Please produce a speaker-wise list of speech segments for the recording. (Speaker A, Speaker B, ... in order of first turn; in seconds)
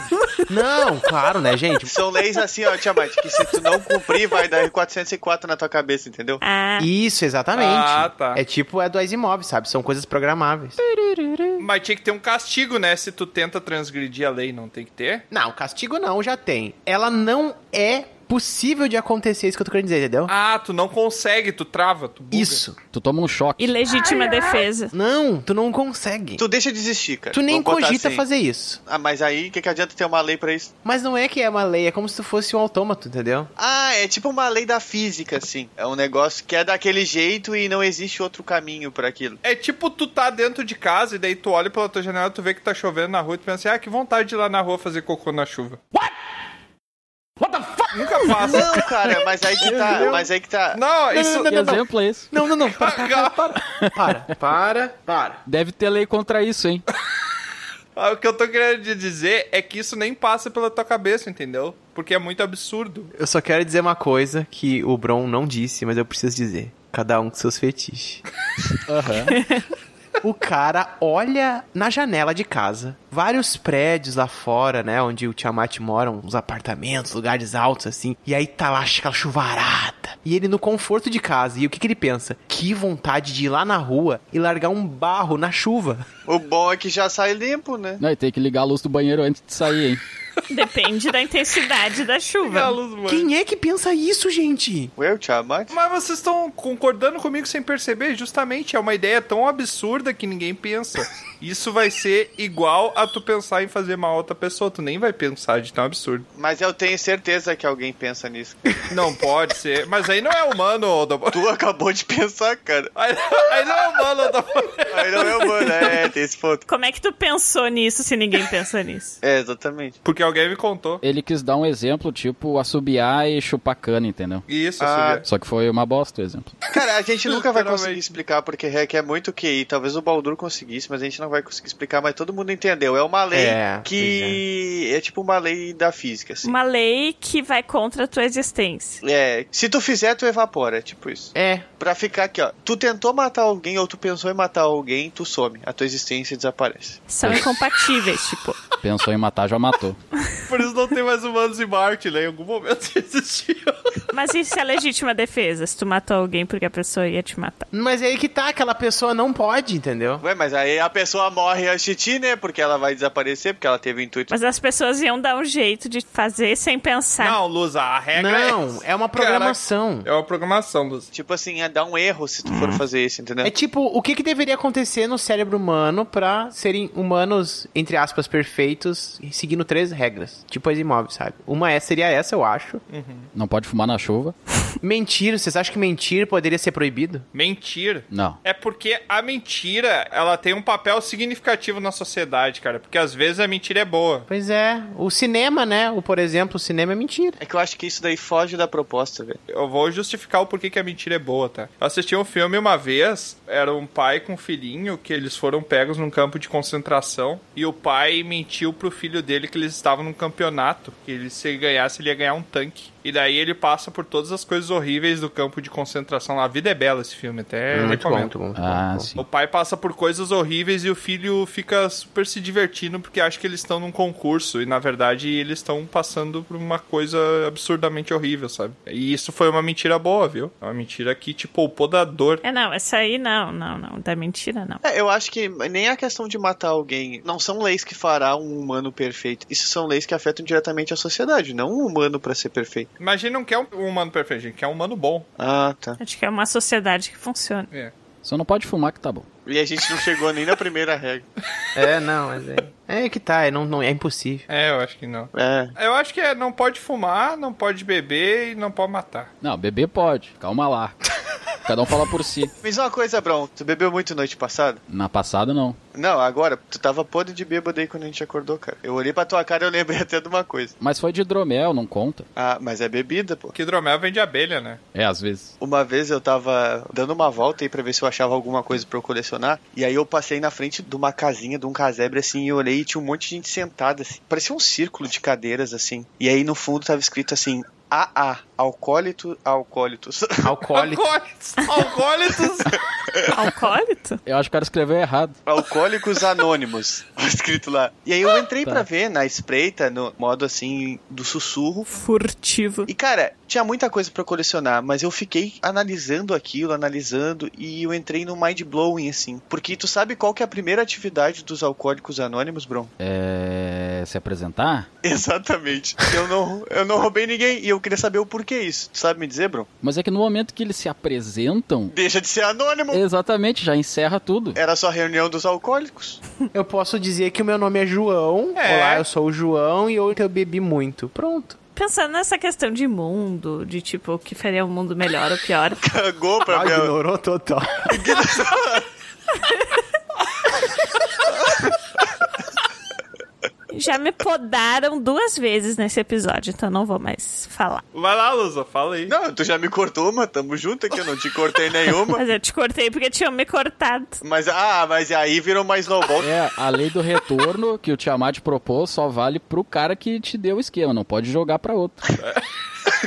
Speaker A: 0.5-2.0, 6.8-11.4, 15.3-20.3, 22.3-22.8, 24.9-26.4, 27.3-28.8, 30.8-33.5, 49.7-50.2, 51.2-51.7, 52.3-55.4, 63.1-68.2, 70.2-86.0, 93.1-94.9, 133.3-134.4, 141.3-141.7, 157.7-160.2, 168.1-170.1, 173.4-182.8, 184.8-187.2, 194.3-197.4, 217.7-219.1, 251.7-254.4, 290.4-291.1, 326.5-331.6, 336.5-338.2
Speaker B: 1.9-6.4, 26.4-28.2, 28.9-30.7, 33.6-39.4, 48.4-51.3, 86.2-88.0, 95.0-95.7, 106.3-108.8, 111.3-112.9, 114.9-116.6, 119.2-120.0, 124.8-125.2, 126.7-136.5, 139.0-147.1, 160.2-164.3, 171.1-173.5, 197.4-199.4, 234.8-242.9, 245.4-246.0, 249.4-251.3, 255.3-255.7, 262.6-264.8, 265.9-270.7, 272.4-273.5, 275.6-290.5, 295.4-301.9, 302.9-312.9, 315.0-319.7, 321.9-323.0, 324.6-326.2, 335.8-336.9, 337.9-338.9, 341.4-341.7, 349.1-352.2, 354.2-356.3
Speaker C: 6.4-6.9, 23.6-24.9, 69.3-69.6, 90.5-92.8, 116.7-119.2, 136.4-139.0, 147.1-148.6, 154.1-157.7, 164.3-167.4, 172.4-172.8, 232.4-234.8, 246.0-247.7, 293.3-294.2, 301.9-302.9, 331.8-335.8, 343.7-347.8, 352.1-354.2
Speaker D: 7.5-8.4, 11.6-15.2, 20.3-22.6, 39.4-45.8, 47.9-48.9, 50.7-51.8, 52.7-53.5, 58.0-63.1, 92.4-93.3, 95.7-106.2, 108.9-111.4, 112.9-116.1, 120.0-121.0, 124.5-125.2, 127.2-128.1, 150.5-154.0, 167.2-171.1, 182.9-183.3, 187.3-194.3, 199.5-218.3, 219.2-232.4, 243.0-245.3, 254.5-259.3, 273.5-274.8, 290.7-292.8, 328.6-329.1, 347.9-349.1
Speaker E: 22.9-23.8, 47.4-47.9, 49.6-50.1, 51.4-52.3, 55.5-56.8, 68.9-69.4, 88.0-90.0, 121.0-124.4, 125.2-126.5, 148.8-150.0, 183.3-184.3, 188.1-188.4, 218.6-219.2, 248.2-249.2, 259.4-261.0, 261.6-262.5, 264.9-265.8, 270.8-272.3, 274.9-275.5, 294.2-295.4, 313.0-314.9, 319.8-321.9, 322.9-324.6, 356.2-362.0